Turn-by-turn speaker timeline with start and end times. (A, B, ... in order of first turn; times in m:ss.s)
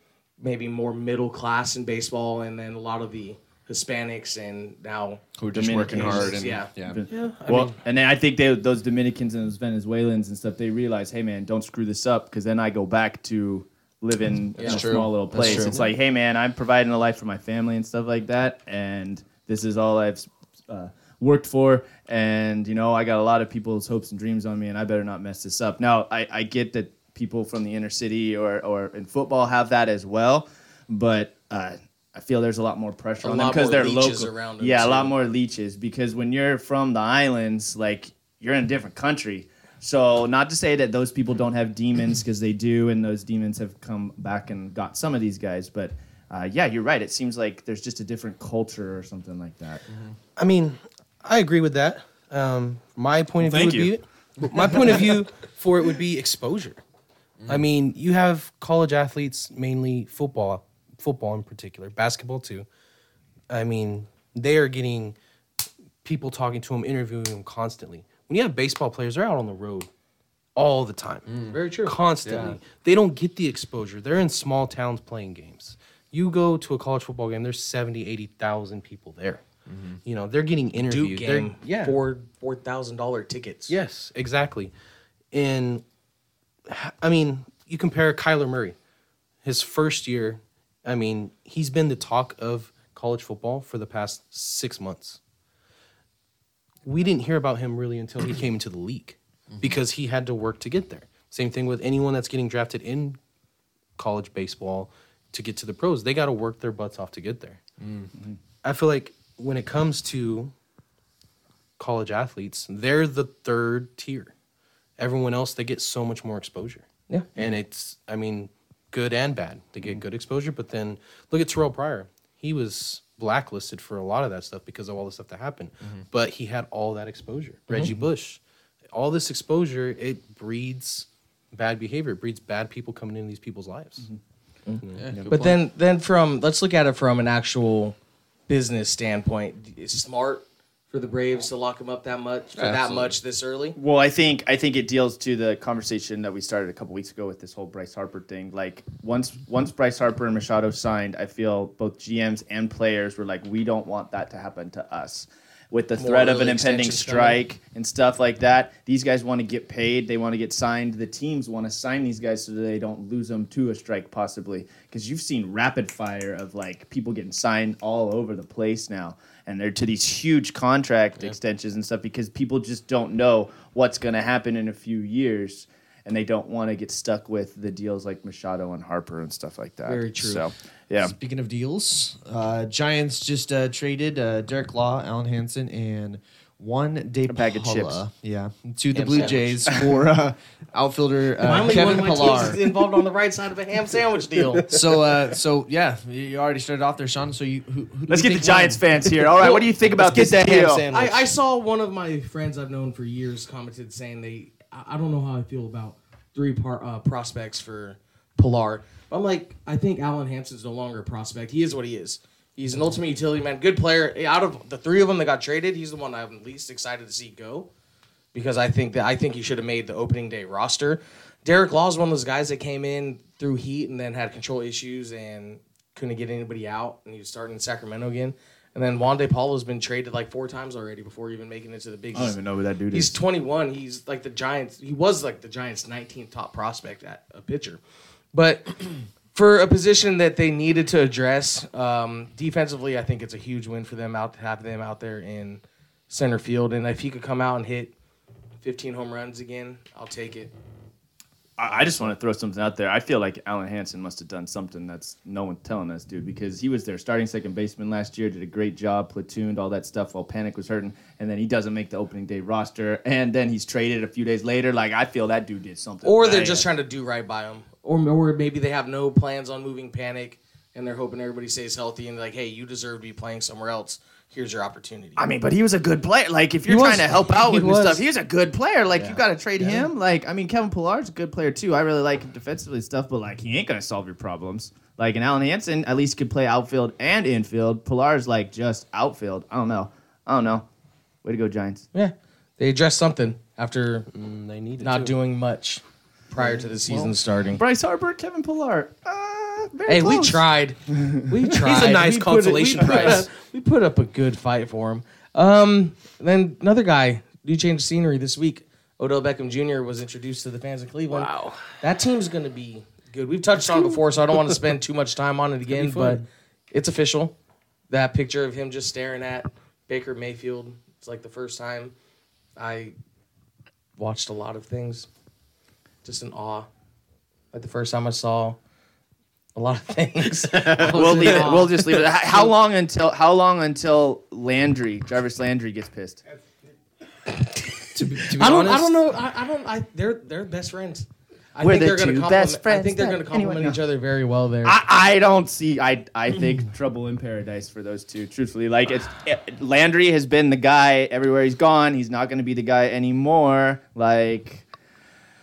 0:00.4-0:05.2 A
0:05.4-0:07.0 B
0:05.5-0:49.8 C
0:05.9-0:07.8 A
0:14.6-0:15.8 A
0:14.6-0:15.9 B
0:33.2-0:35.1 A
0:49.9-0:50.2 B
0:50.4-0:56.8 D
0:53.4-0:53.9 C
0:57.4-0:57.7 B
0:57.5-1:02.6 D
1:03.5-1:05.1 D
1:06.0-1:09.9 D
1:10.6-1:11.3 D
1:11.3-1:11.6 B
1:11.5-1:12.5 A
1:11.8-1:19.4 D
1:12.2-1:12.6 B
1:19.7-1:20.0 B
1:20.0-1:22.0 D
1:20.8-1:23.8 A
1:23.7-1:24.7 D
1:25.3-1:25.8 D
1:26.7-1:28.8 D
1:29.4-1:35.2 D
1:36.8-1:43.2 D
1:44.0-1:47.6 D
1:47.8-1:48.1 B
1:48.6-1:50.5 D
1:51.8-1:54.3 D
1:55.0-2:08.4 D
2:08.9-2:14.1 D
2:14.6-2:18.0 A
2:14.9-2:15.6 B
2:18.5-2:23.8 A
2:22.6-2:23.2 B
2:23.8-3:01.1 C
2:36.0-2:37.4 A
2:59.8-3:00.5 A
3:01.0-3:12.6 B
3:07.3-3:08.0 C
3:08.9-3:09.5 A
3:09.1-3:10.0 C
3:09.1-3:09.4 D
3:11.4-3:14.7 A
3:14.7-3:18.8 B
3:18.1-3:20.9 C
3:19.5-3:21.3 D
3:20.9-3:37.7 A
3:38.3-3:52.4 A
3:52.1-3:53.2 C
3:52.9-3:57.8 A
3:58.3-4:07.9 A
4:08.6-4:10.5 A
4:11.6-4:26.7 C
4:26.0-4:35.2 A
4:35.2-4:50.6 C
4:36.7-4:38.0 A
4:39.0-4:39.8 A
4:51.2-4:51.8 C
4:51.9-4:54.1 A
4:54.1-4:55.1 D
4:54.8-4:57.6 A
4:56.4-4:57.1 B
4:57.6-5:01.3 C
4:59.9-5:17.3 A
5:01.6-5:03.3 D
5:11.1-5:11.6 D
5:13.6-5:14.0 D
5:15.7-5:16.2 D
5:17.9-5:21.9 A
5:22.6-5:22.9 A
5:24.0-5:25.1 A
5:26.0-5:26.7 A
5:27.5-5:28.6 A
5:29.5-5:32.5 A
5:30.5-5:31.5 D
5:30.8-5:36.2 C
5:37.9-5:39.0 D
5:38.2-5:44.8 A
5:41.6-5:43.8 C
5:44.6-5:54.6 C